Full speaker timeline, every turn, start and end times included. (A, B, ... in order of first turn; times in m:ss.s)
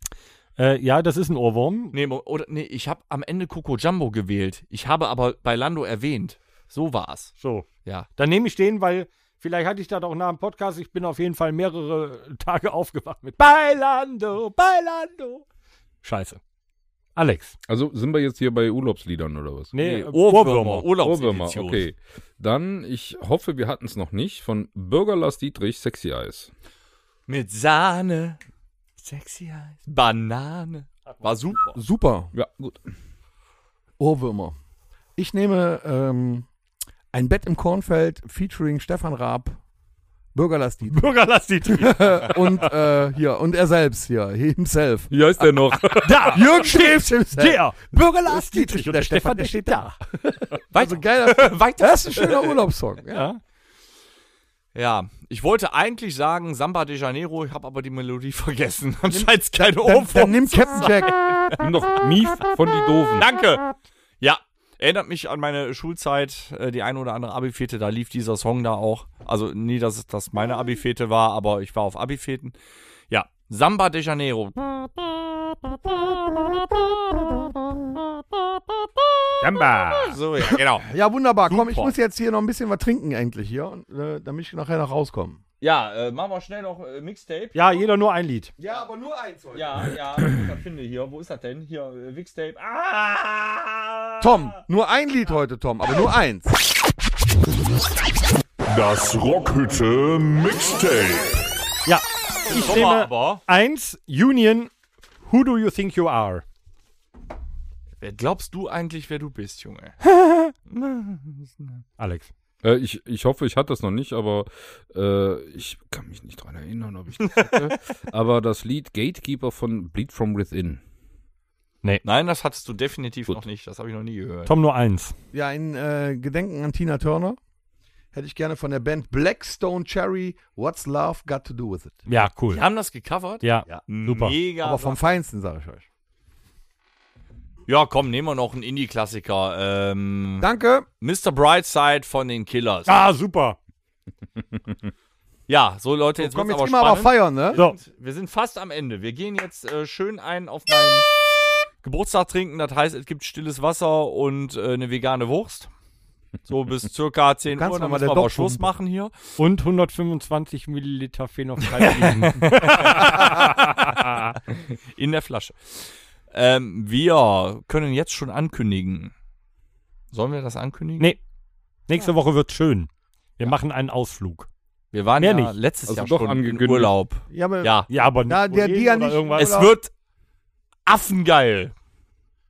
0:00.6-0:02.0 A
0:01.9-0:08.1 B
0:07.4-0:15.4 A
0:16.0-0:16.4 A
0:17.2-0:17.6 A
0:17.7-0:20.0 C
0:19.7-0:20.9 A
0:19.8-0:21.8 B
0:21.0-0:26.5 C
0:27.3-0:28.4 B
0:29.0-0:31.8 B
0:31.7-0:32.3 D
0:32.3-0:32.8 C
0:34.0-0:34.5 D
0:35.2-0:36.5 D
0:37.1-0:39.6 D
0:40.3-0:41.1 D
0:40.9-0:42.7 A
0:41.7-0:45.1 D
0:45.1-0:46.6 C
0:46.0-0:50.0 A
0:46.3-0:53.3 D
0:50.7-0:52.6 B
0:53.1-0:53.4 A
0:54.7-1:01.7 B
0:59.1-1:01.1 D
1:01.6-1:03.3 C
1:03.2-1:12.5 B
1:13.1-1:18.1 B
1:19.4-1:20.2 A
1:19.9-1:20.9 B
1:20.4-1:25.4 D
1:21.5-1:21.9 B
1:25.6-1:27.8 B
1:27.5-1:28.5 A
1:28.6-1:29.9 D
1:29.5-1:34.6 B
1:34.2-1:36.5 D
1:38.7-1:41.4 E
1:41.8-1:44.7 A
1:42.5-1:43.4 B
1:45.2-1:46.4 A
1:48.0-1:50.0 B
1:50.2-1:50.5 A
1:50.7-1:51.8 B
1:52.0-1:52.3 A
1:52.6-2:00.8 C
1:57.2-1:57.7 B
2:02.0-2:04.5 B
2:04.4-2:05.1 A
2:05.3-2:07.4 D
2:08.1-2:12.0 D
2:12.1-2:12.6 A
2:12.5-2:15.0 B
2:13.4-2:14.4 A
2:14.6-2:15.8 D
2:17.7-2:20.5 B
2:20.4-2:20.8 D
2:21.0-2:22.9 B
2:22.8-2:23.6 A
2:25.5-2:31.1 B
2:26.2-2:27.6 D
2:31.8-2:35.7 B
2:36.4-2:39.1 B
2:37.5-2:38.7 D
2:39.4-2:43.3 A
2:41.7-2:43.5 B
2:45.0-2:49.1 B
2:50.1-2:51.1 B
2:51.9-2:54.5 A
2:54.9-2:57.9 B
2:55.2-2:55.5 A
2:55.9-2:56.9 C
2:57.3-2:59.7 D
2:57.9-2:59.7 A
2:59.4-2:59.9 B
3:00.8-3:01.7 B